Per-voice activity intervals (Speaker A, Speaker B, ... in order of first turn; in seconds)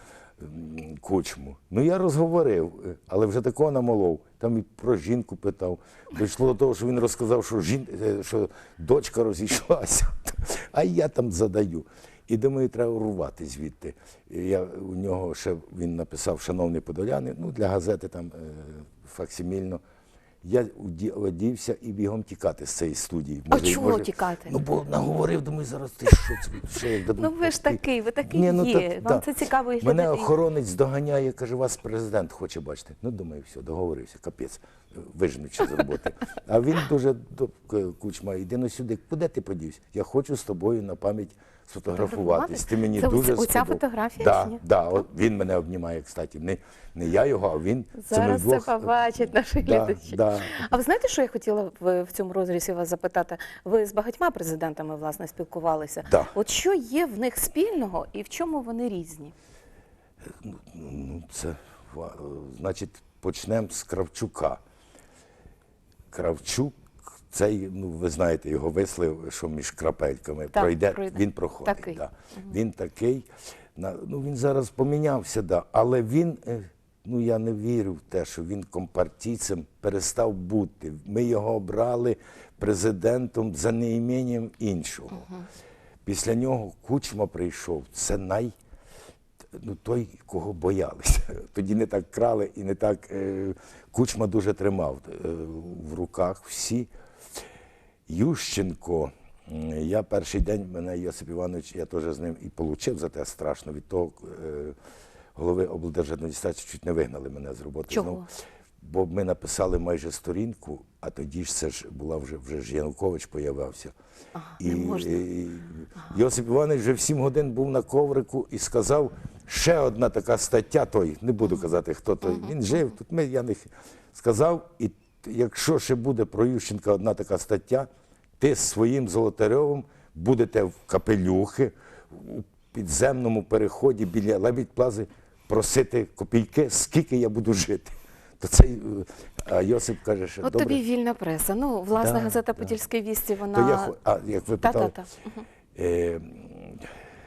Speaker A: 0.4-19.8, 20.4-29.3, 29.8-48.9, 49.6-50.5, 56.0-56.3, 60.4-64.6, 66.1-85.3, 86.0-88.5, 89.5-96.9, 98.1-104.8, 105.3-108.3, 108.8-113.9, 114.6-127.9, 128.4-140.8, 141.9-142.8, 143.5-144.9, 145.7-146.9
Speaker B: 23.5-24.5, 27.1-30.3, 42.0-44.6, 48.0-59.3, 70.5-72.5, 107.9-108.3, 114.3-115.3, 140.4-143.9, 144.6-145.4